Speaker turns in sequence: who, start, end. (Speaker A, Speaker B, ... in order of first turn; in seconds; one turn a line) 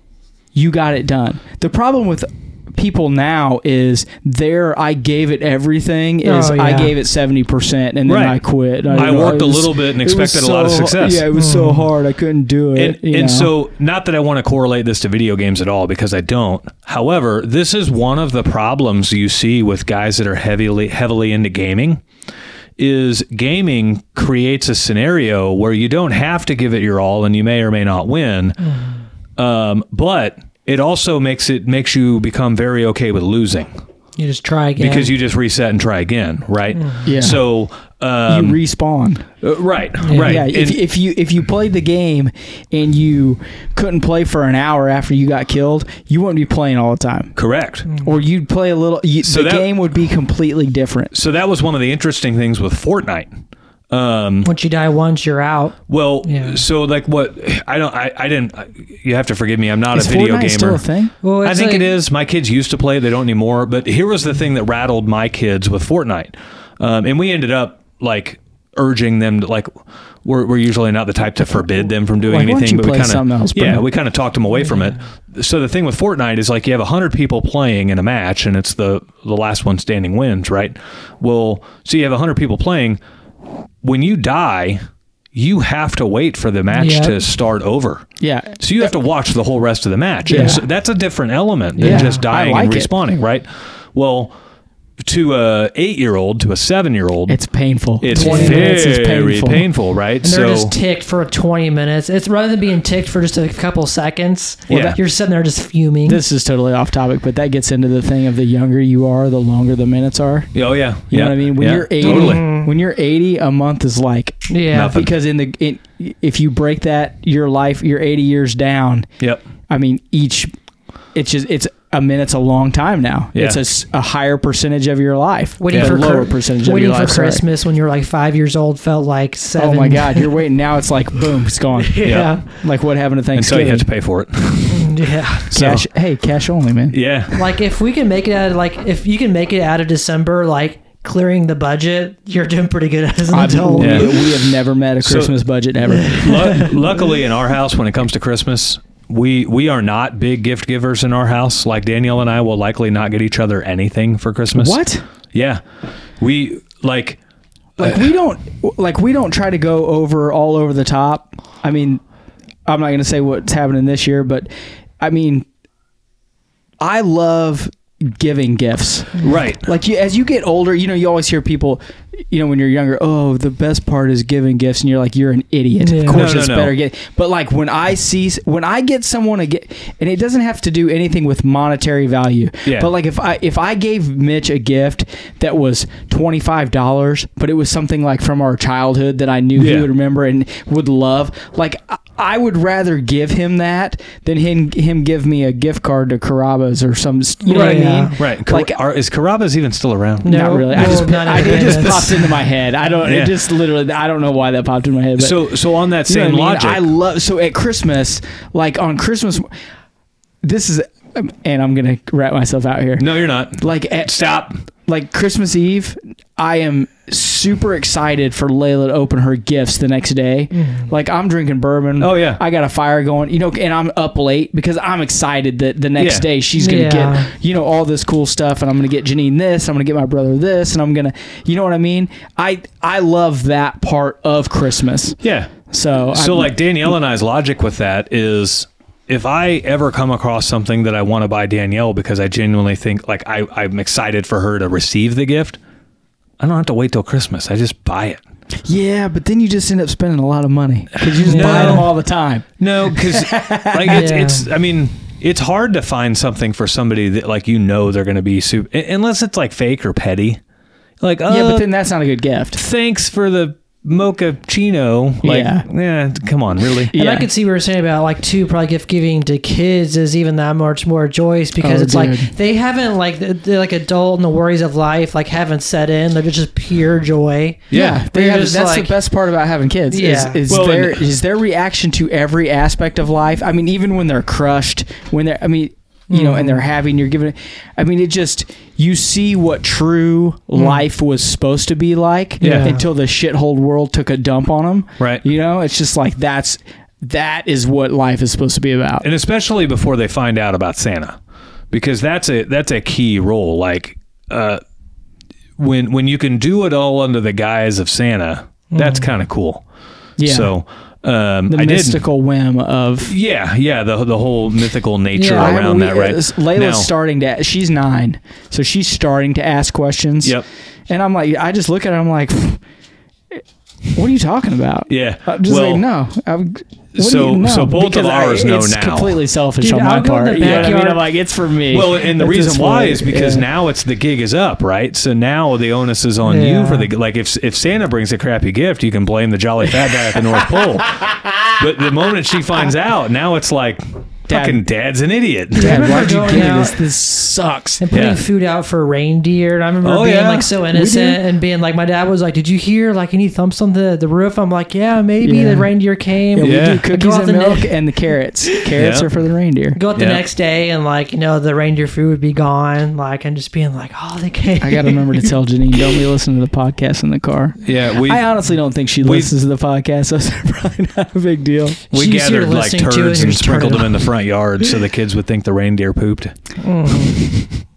Speaker A: 0.5-13.5
Speaker B: 6.2-6.9
Speaker C: 8.1-8.4
Speaker C: 8.9-11.2
Speaker B: 11.3-11.9
Speaker C: 12.8-22.0
Speaker C: 22.8-28.6
Speaker B: 28.6-29.0
Speaker C: 29.4-33.7
Speaker B: 34.2-35.1
Speaker C: 34.8-38.6
Speaker B: 36.8-37.1
Speaker A: 37.0-37.4
Speaker A: 38.3-39.3
Speaker C: 39.4-40.8
Speaker B: 40.0-40.4
Speaker A: 40.1-47.3
Speaker C: 47.4-47.9
Speaker A: 48.0-51.1
Speaker C: 49.2-49.7
Speaker C: 51.1-53.3
Speaker C: 53.9-54.5
Speaker B: 54.4-56.6
Speaker C: 55.9-60.8
Speaker A: 59.9-61.1
Speaker B: 61.2-61.9
Speaker C: 61.4-69.7
Speaker C: 70.2-83.0
Speaker A: 71.6-73.9
Speaker B: 74.7-75.0
Speaker C: 83.8-84.8
Speaker C: 85.3-88.0
Speaker B: 86.7-87.2
Speaker A: 88.2-88.6
Speaker C: 88.6-94.3
Speaker A: 90.2-90.6
Speaker A: 91.8-92.9
Speaker B: 91.8-92.2
Speaker C: 95.0-97.4
Speaker A: 97.3-99.7
Speaker C: 98.0-100.7
Speaker B: 98.1-98.8
Speaker B: 100.2-106.2
Speaker C: 104.7-105.0
Speaker A: 106.0-110.5
Speaker C: 110.5-112.4
Speaker A: 111.1-119.1
Speaker B: 112.0-112.7
Speaker B: 114.5-115.0
Speaker C: 114.7-115.1
Speaker A: 119.7-120.5
Speaker A: 121.1-127.4
Speaker C: 123.3-123.6
Speaker B: 125.6-130.3
Speaker C: 125.7-126.0
Speaker A: 129.6-133.8
Speaker B: 131.8-132.4
Speaker C: 132.0-132.3
Speaker C: 133.3-135.8
Speaker B: 134.7-135.5
Speaker A: 135.5-137.0
Speaker C: 136.9-137.4
Speaker B: 137.3-144.2
Speaker A: 143.3-146.3
Speaker C: 143.8-144.3
Speaker C: 145.0-145.3
Speaker B: 145.9-146.7
Speaker C: 146.1-154.8
Speaker A: 154.5-155.0
Speaker C: 155.3-155.6
Speaker C: 156.2-157.2
Speaker A: 157.8-162.0
Speaker A: 162.7-164.5
Speaker A: 165.0-165.4
Speaker A: 166.8-198.8
Speaker C: 169.2-169.7
Speaker B: 175.8-176.2
Speaker C: 176.1-176.7
Speaker C: 189.6-189.9
Speaker B: 197.4-198.2
Speaker C: 197.6-202.1
Speaker B: 200.2-202.3
Speaker A: 200.2-205.4
Speaker C: 203.0-203.5
Speaker C: 205.2-206.8
Speaker A: 206.1-209.5
Speaker A: 210.4-214.1
Speaker C: 213.0-214.6
Speaker A: 214.9-236.9
Speaker B: 220.5-220.9
Speaker C: 222.0-222.4
Speaker C: 226.0-226.2
Speaker B: 226.5-227.3
Speaker C: 235.2-235.5
Speaker C: 236.1-245.6
Speaker C: 246.4-248.2
Speaker A: 248.6-254.1
Speaker C: 251.1-251.9
Speaker B: 251.2-251.9
Speaker C: 252.6-260.4
Speaker B: 253.9-254.5
Speaker C: 261.0-261.7
Speaker A: 261.3-262.6
Speaker C: 262.5-266.9
Speaker A: 265.2-265.6
Speaker A: 266.9-267.3
Speaker B: 266.9-278.9
Speaker A: 271.6-272.3
Speaker C: 277.7-278.0
Speaker A: 277.7-299.1
Speaker B: 279.9-280.4
Speaker C: 280.5-281.0
Speaker B: 286.1-286.6
Speaker B: 290.6-290.8
Speaker C: 292.4-292.7
Speaker B: 292.4-292.8
Speaker C: 299.0-301.2
Speaker C: 301.7-304.6
Speaker C: 305.6-309.6
Speaker B: 308.7-309.1
Speaker A: 310.2-310.5
Speaker C: 310.2-312.0
Speaker A: 311.5-313.1
Speaker C: 313.0-316.9
Speaker B: 315.1-315.5
Speaker A: 315.3-320.4
Speaker A: 320.9-322.6
Speaker A: 323.9-333.4
Speaker C: 324.9-325.8
Speaker C: 326.9-329.2
Speaker B: 329.6-331.0
Speaker C: 330.4-330.8
Speaker C: 331.7-345.9
Speaker B: 336.2-336.9
Speaker A: 344.3-344.6
Speaker B: 345.5-346.8
Speaker A: 345.6-347.8
Speaker B: 347.8-357.7
Speaker C: 347.9-348.2
Speaker C: 349.8-350.5
Speaker A: 350.7-351.2
Speaker A: 355.2-355.7
Speaker A: 356.3-359.8
Speaker C: 356.4-356.8
Speaker C: 358.8-359.1
Speaker B: 359.8-365.3
Speaker C: 359.9-360.2
Speaker A: 364.6-371.8
Speaker C: 367.6-368.3
Speaker C: 369.0-369.3
Speaker B: 371.9-374.1
Speaker C: 371.9-376.3
Speaker B: 376.6-377.3
Speaker C: 376.9-377.2